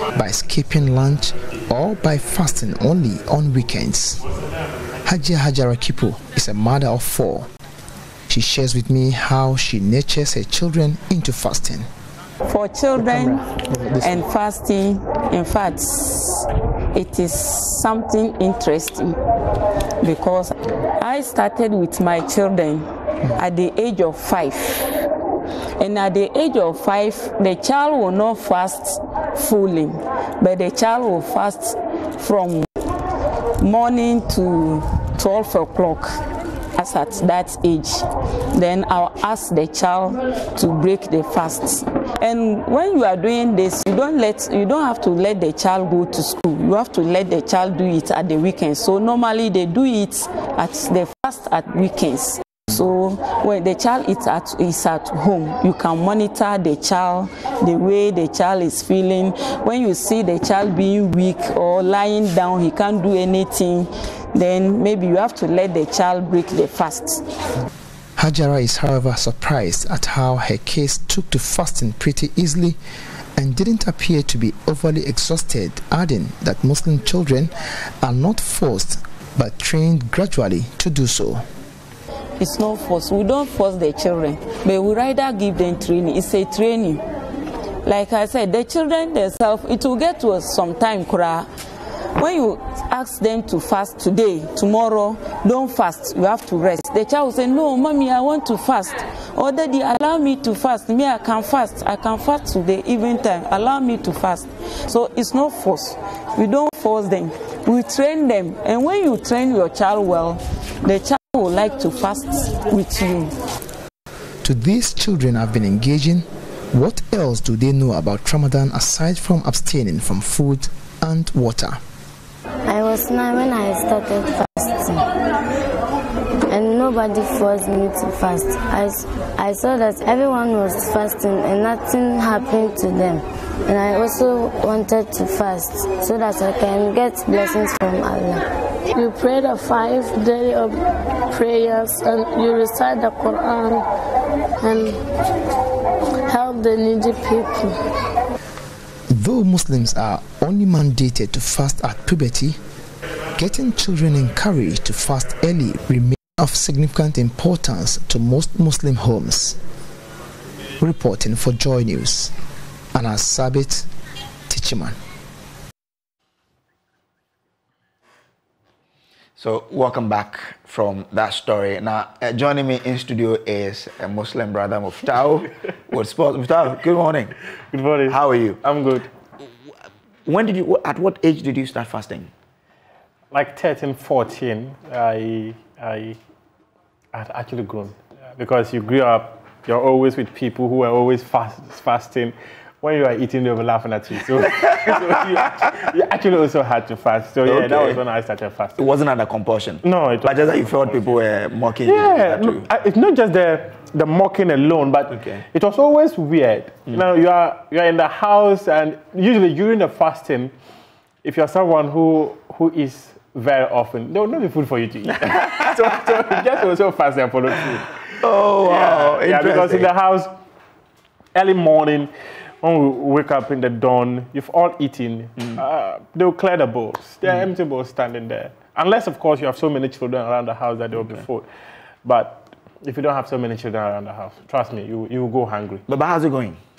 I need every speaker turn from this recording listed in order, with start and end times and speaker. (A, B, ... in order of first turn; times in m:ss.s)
0:00.1-0:04.2 A
0:05.0-0:07.5 A
0:08.3-0:11.9 A
0:12.4-0:19.2 B
0:13.9-0:14.2 A
0:20.0-0:24.9 B
0:25.8-0:32.7 B
0:33.6-0:36.2 B
0:36.7-1:07.2 B
1:08.2-1:12.8 A
1:13.4-1:21.4 A
1:22.4-1:27.0 B
1:27.8-1:31.5 B
1:32.2-1:53.3 B
1:54.4-2:01.8 A
2:02.7-2:05.0 C
2:06.5-2:18.4 C
2:18.9-2:20.8 D
2:21.3-2:23.8 D
2:24.6-2:25.0 D
2:26.3-2:27.7 D
2:29.1-2:32.6 A
2:33.4-2:39.6 A
2:40.8-2:42.3 A
2:43.0-2:43.9 A
2:44.5-2:45.0 A
2:49.4-2:57.3 E
2:57.7-2:59.1 F
2:58.1-2:58.6 E
3:00.3-3:02.3 E
3:03.3-3:06.2 F
3:07.1-3:18.8 F
3:17.4-3:18.0 E
3:18.8-3:22.7 E
3:19.8-3:21.2 F
3:21.8-3:30.5 F
3:25.1-3:25.4 E
3:31.2-3:37.9 F
3:38.1-3:39.9 E
3:38.6-3:40.3 F
3:41.4-3:42.1 F
3:42.6-3:51.5 F
3:52.0-3:55.8 F
3:55.9-3:56.6 E